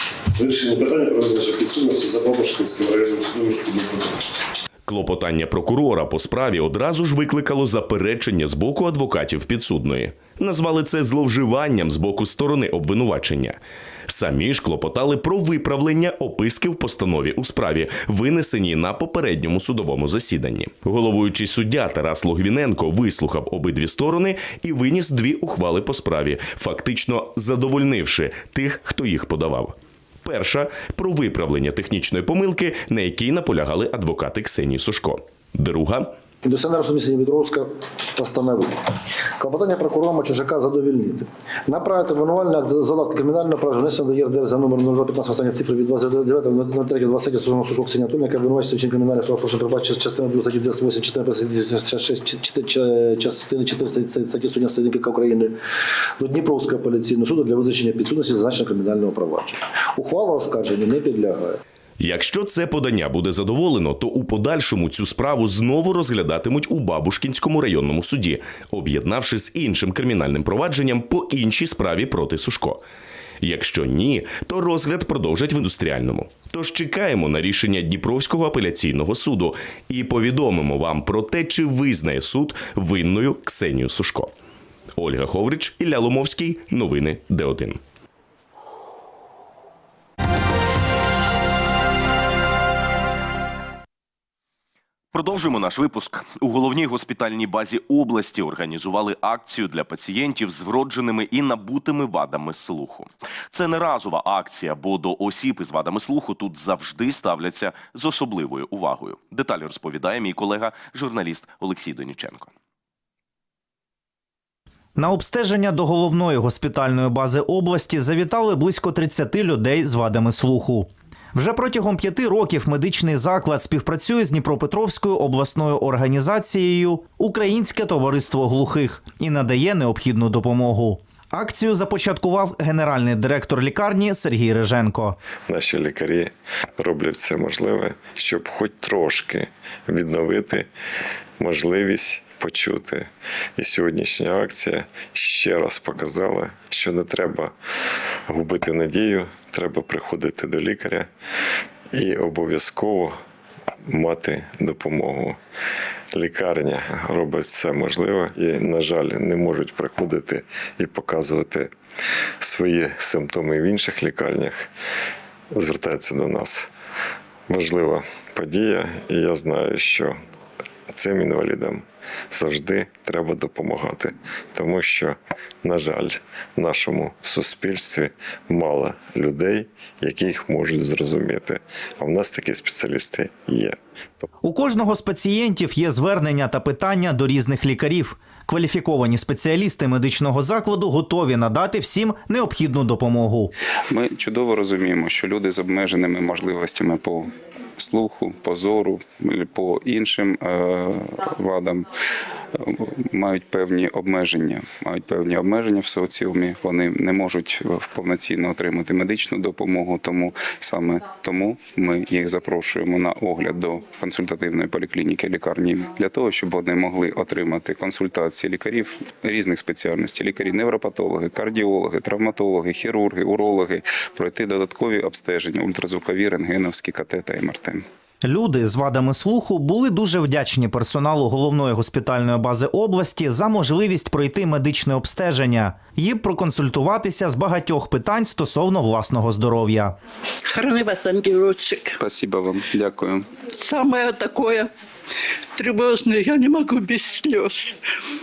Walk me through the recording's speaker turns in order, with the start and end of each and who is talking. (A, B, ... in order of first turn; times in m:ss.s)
0:00.3-0:04.2 A
0:04.9-0:36.1 B
0:36.4-0:38.8 C
0:39.4-0:55.5 C
0:56.2-1:01.6 C
1:02.0-1:12.8 B
1:13.4-1:24.3 B
1:25.0-1:27.8 B
1:35.1-1:52.5 D
1:55.0-2:15.2 E
2:15.5-2:20.7 F
2:21.4-2:27.5 F
2:28.3-2:31.1 F
2:31.9-2:33.1 F
2:33.8-2:35.4 F
2:36.1-2:41.7 F
2:42.4-2:44.7 F
2:45.5-2:46.7 F
2:47.5-2:50.2 F
2:50.9-3:03.8 F
3:04.4-3:13.5 E
3:13.9-3:21.9 G
3:22.5-3:47.8 G
3:48.2-4:00.0 E
4:00.5-4:02.0 H
4:02.0-4:03.2 G
4:03.5-4:04.7 H
4:05.5-4:07.8 H